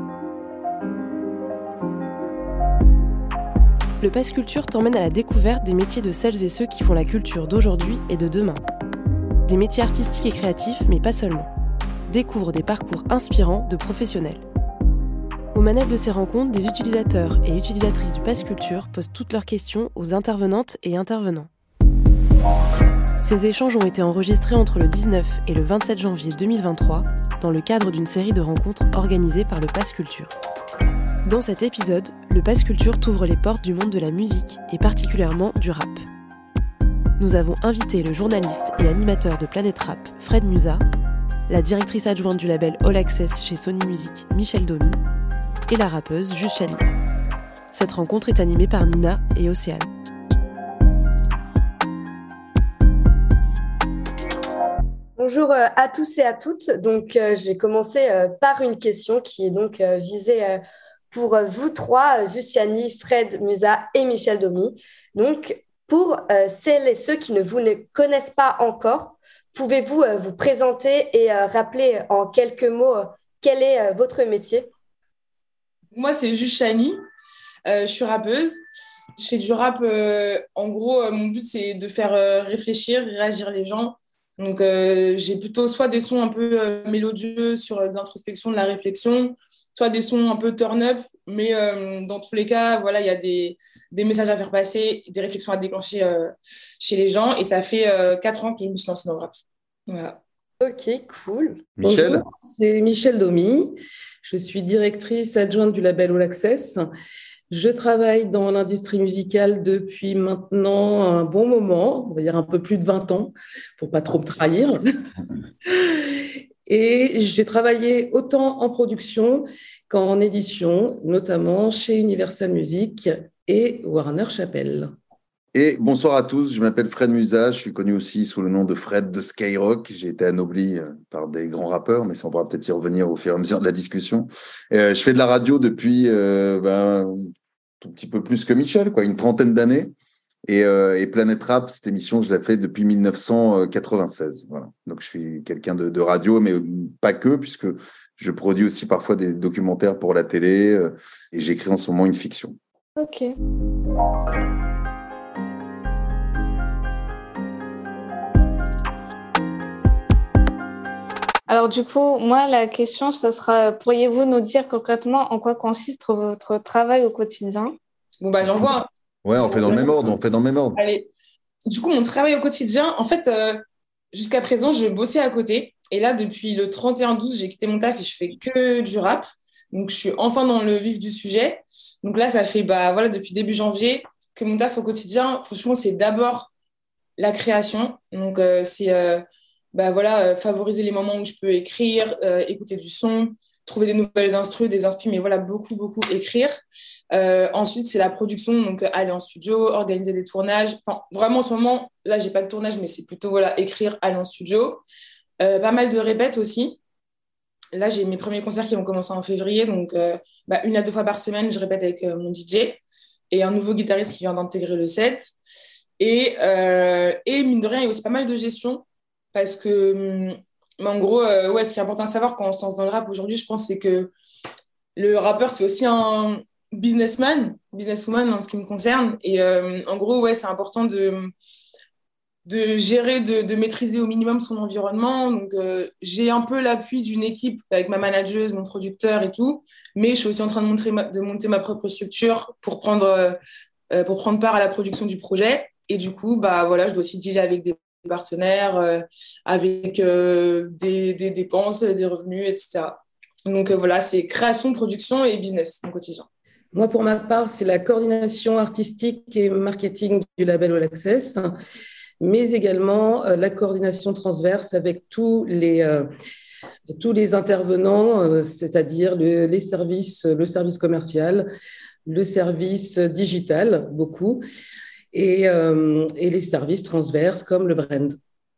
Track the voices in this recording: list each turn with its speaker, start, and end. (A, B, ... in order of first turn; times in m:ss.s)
0:04.0-0:08.6 A
0:09.4-0:11.5 A
0:12.1-0:14.4 A
0:15.5-0:21.5 A
0:23.2-0:30.3 A
0:31.2-0:36.0 A
0:37.2-0:40.8 A
0:41.5-0:45.0 A
0:45.7-0:46.9 A
0:47.7-0:49.9 A
0:55.2-1:00.6 B
1:01.1-1:14.7 B
1:15.9-1:17.0 C
1:17.6-1:18.6 C
1:19.2-1:40.2 C
1:40.6-1:41.6 B
1:41.8-1:42.2 D
1:41.8-1:46.8 E
1:47.5-1:54.8 E
1:55.8-2:04.9 E
2:05.5-2:17.3 D
2:17.8-2:19.9 D
2:20.5-2:32.6 D
2:33.0-2:33.3 F
2:41.5-2:47.8 F
2:48.2-2:48.9 C
2:49.2-2:50.8 D
2:49.5-2:49.9 C
2:50.8-2:51.1 C
2:51.7-2:53.6 C
2:54.1-3:06.5 C
3:07.2-3:16.6 C
3:17.1-3:24.8 C
3:25.4-3:26.8 C
3:27.7-3:35.3 C
3:36.0-3:44.1 C
3:45.0-3:51.3 C
3:52.4-4:03.4 C
4:03.9-4:16.3 C
4:16.7-4:21.5 E
4:22.2-4:26.1 E
4:26.9-4:31.5 E
4:32.0-4:34.4 E
4:35.1-4:38.2 E